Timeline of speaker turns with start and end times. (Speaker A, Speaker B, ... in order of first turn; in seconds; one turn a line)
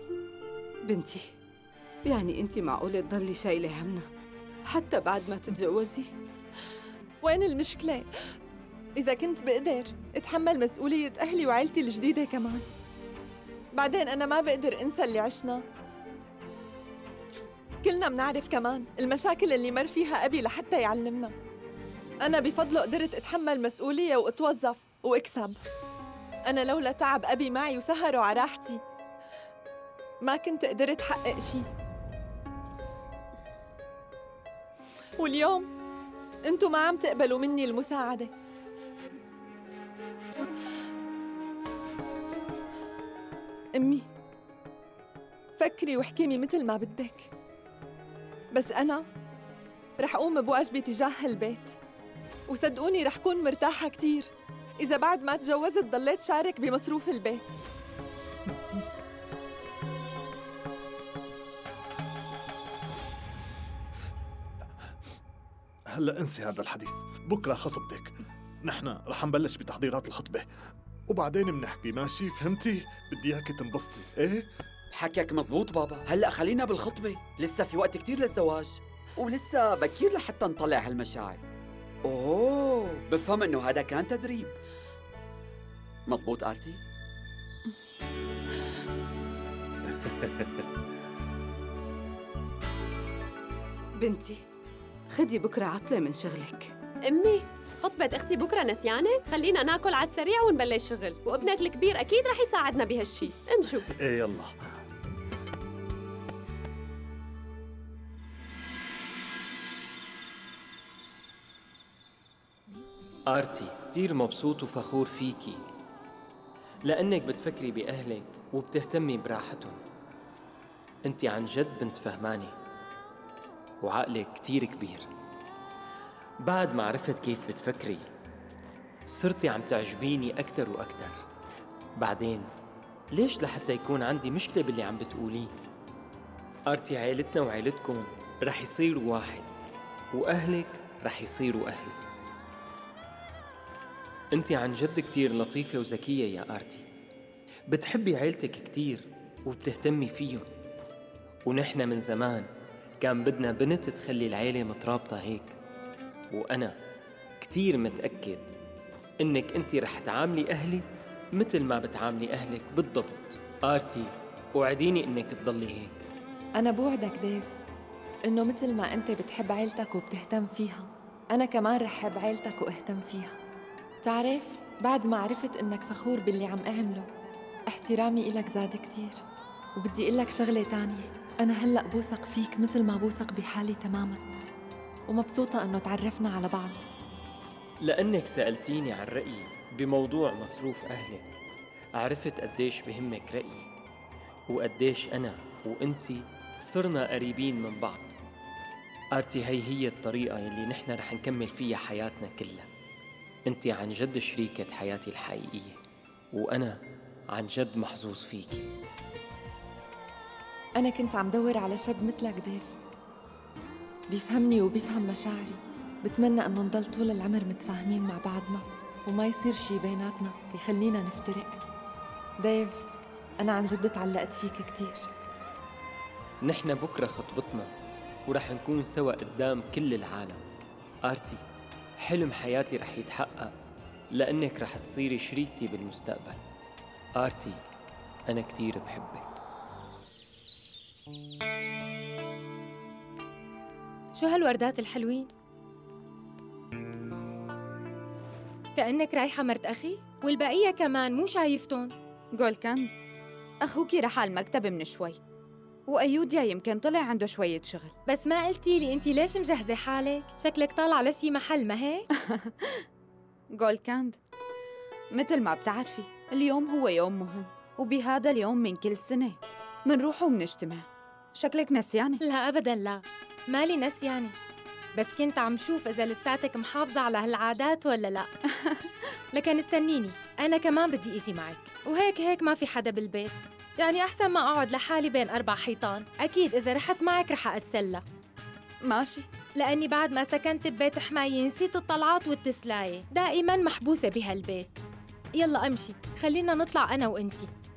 Speaker A: 0.8-1.3
Speaker A: 2.0-4.1
Speaker A: 4.7-6.1
Speaker B: 7.2-8.1
Speaker B: 9.0-12.7
Speaker B: 13.7-15.6
Speaker B: 17.8-21.3
Speaker B: 22.2-25.6
Speaker B: 26.5-28.8
Speaker B: 30.2-31.7
Speaker B: 35.2-35.7
Speaker B: 36.5-38.3
Speaker B: 43.8-44.1
Speaker B: 45.6-47.3
Speaker B: 48.5-49.1
Speaker B: 50.0-51.8
Speaker B: 52.5-57.5
Speaker C: 65.9-70.5
Speaker C: 71.1-74.5
Speaker D: 74.9-81.4
Speaker D: 82.0-84.6
Speaker D: 86.1-86.8
Speaker C: 90.1-90.5
Speaker A: 94.0-94.4
Speaker A: 95.1-96.8
Speaker E: 97.1-103.8
Speaker C: 104.0-104.5
Speaker F: 113.3-115.6
Speaker F: 116.8-119.8
Speaker F: 121.0-122.5
Speaker F: 123.8-125.1
Speaker F: 126.4-128.1
Speaker F: 129.1-131.2
Speaker F: 132.0-132.5
Speaker F: 133.1-135.5
Speaker F: 136.7-139.5
Speaker F: 140.1-142.0
Speaker F: 144.3-146.8
Speaker F: 147.7-150.5
Speaker F: 151.5-152.5
Speaker F: 153.0-155.6
Speaker F: 156.3-156.7
Speaker F: 157.4-158.5
Speaker F: 159.2-160.8
Speaker F: 161.3-165.9
Speaker B: 166.6-167.5
Speaker B: 168.3-173.4
Speaker B: 174.0-177.1
Speaker B: 177.7-179.2
Speaker B: 179.8-184.2
Speaker B: 185.1-186.8
Speaker F: 187.8-191.4
Speaker F: 192.0-193.7
Speaker F: 194.5-198.2
Speaker F: 199.1-202.7
Speaker F: 203.5-205.8
Speaker F: 206.3-206.8
Speaker F: 207.3-208.7
Speaker B: 210.8-212.8
Speaker B: 214.1-221.6
Speaker B: 222.4-222.9
Speaker B: 223.4-225.1
Speaker F: 226.4-227.7
Speaker F: 228.3-230.4
Speaker F: 231.1-231.4
Speaker F: 232.0-233.5
Speaker F: 234.2-236.4
Speaker F: 237.2-237.6
Speaker F: 238.3-239.2
Speaker G: 244.2-245.3
Speaker G: 248.8-251.9
Speaker H: 252.3-252.9
Speaker H: 253.6-255.2
Speaker H: 255.9-257.9
Speaker G: 258.1-262.1
Speaker H: 262.2-262.9
Speaker H: 263.5-264.2
Speaker H: 265.1-272.2
Speaker G: 272.2-274.4
Speaker G: 275.0-278.3
Speaker G: 279.3-288.0
Speaker H: 288.8-289.3
Speaker G: 289.6-294.8
Speaker G: 295.4-297.5